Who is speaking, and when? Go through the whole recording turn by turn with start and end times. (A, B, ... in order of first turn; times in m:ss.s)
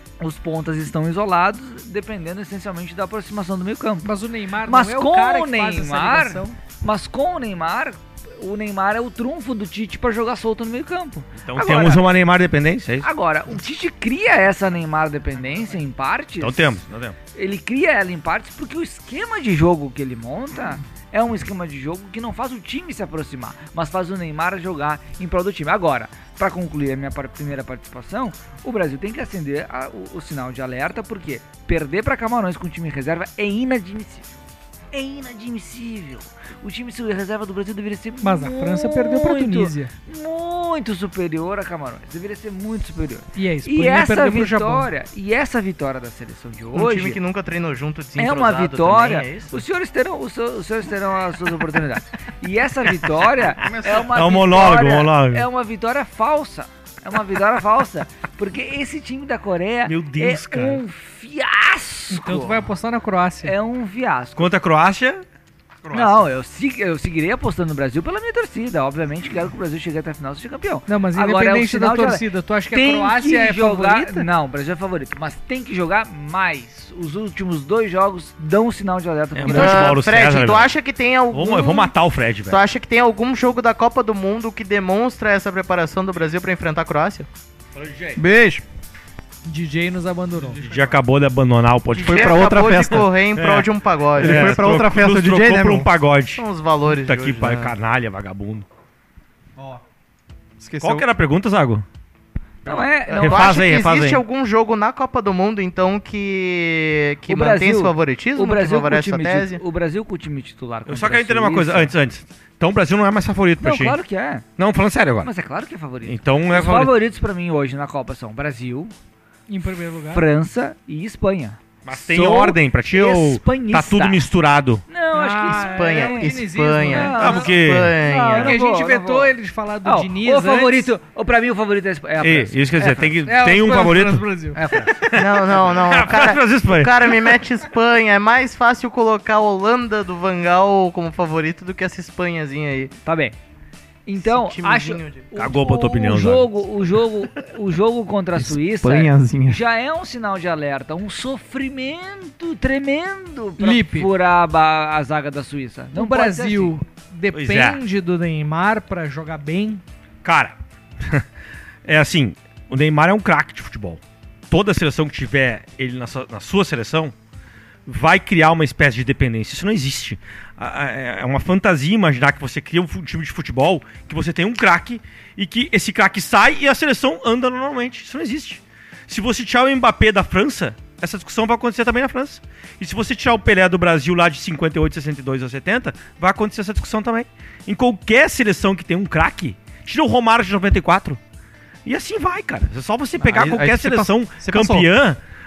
0:00.2-0:04.1 A
0:04.0-0:06.6 B
0:04.6-0:12.2 A
0:11.4-0:13.1 C
0:13.0-0:16.8 A
0:16.4-0:17.2 C
0:17.3-0:34.3 A
0:34.9-0:47.2 A
0:38.2-0:39.9 B
0:43.4-0:44.9 B
0:46.7-0:49.6 D
0:48.2-1:02.7 A
0:53.6-0:54.0 E
0:53.9-0:55.5 C
0:59.9-1:00.8 C
1:02.1-1:03.6 B
1:03.4-1:04.5 A
1:04.4-1:05.2 C
1:05.8-1:06.3 E
1:05.9-1:20.0 A
1:10.9-1:14.3 B
1:19.4-1:20.7 C
1:19.5-1:21.9 D
1:21.3-1:22.6 C
1:22.5-1:27.3 D
1:27.8-1:28.2 C
1:28.2-1:28.6 E
1:29.4-1:30.6 B
1:30.4-1:31.0 E
1:30.6-1:38.7 C
1:31.9-1:34.6 D
1:32.0-1:33.1 E
1:34.2-1:35.9 E
1:36.4-1:37.7 D
1:40.6-1:41.0 E
1:40.8-1:41.8 C
1:42.6-1:43.6 A
1:42.7-1:44.2 C
1:43.2-1:49.6 D
1:47.3-1:51.9 A
1:50.9-1:54.0 C
1:53.6-1:54.5 A
1:54.6-1:55.3 C
1:55.2-1:58.9 A
1:56.0-1:56.9 C
1:59.5-2:00.2 B
2:00.0-2:04.2 A
2:01.8-2:04.8 C
2:04.9-2:09.3 A
2:05.1-2:07.4 B
2:05.6-2:08.6 D
2:07.2-2:08.0 C
2:08.3-2:10.9 B
2:09.8-2:13.2 A
2:12.2-2:17.4 C
2:13.2-2:14.6 B
2:14.6-2:15.1 A
2:15.1-2:22.9 D
2:23.0-2:23.4 A
2:24.1-2:36.8 A
2:24.2-2:25.3 D
2:25.4-2:26.5 C
2:28.4-2:29.6 E
2:33.6-2:34.1 B
2:35.9-2:39.8 B
2:37.3-2:37.8 C
2:40.2-2:41.2 C
2:41.8-2:47.1 C
2:47.9-3:11.2 C
3:11.8-3:15.2 C
3:13.2-3:14.9 E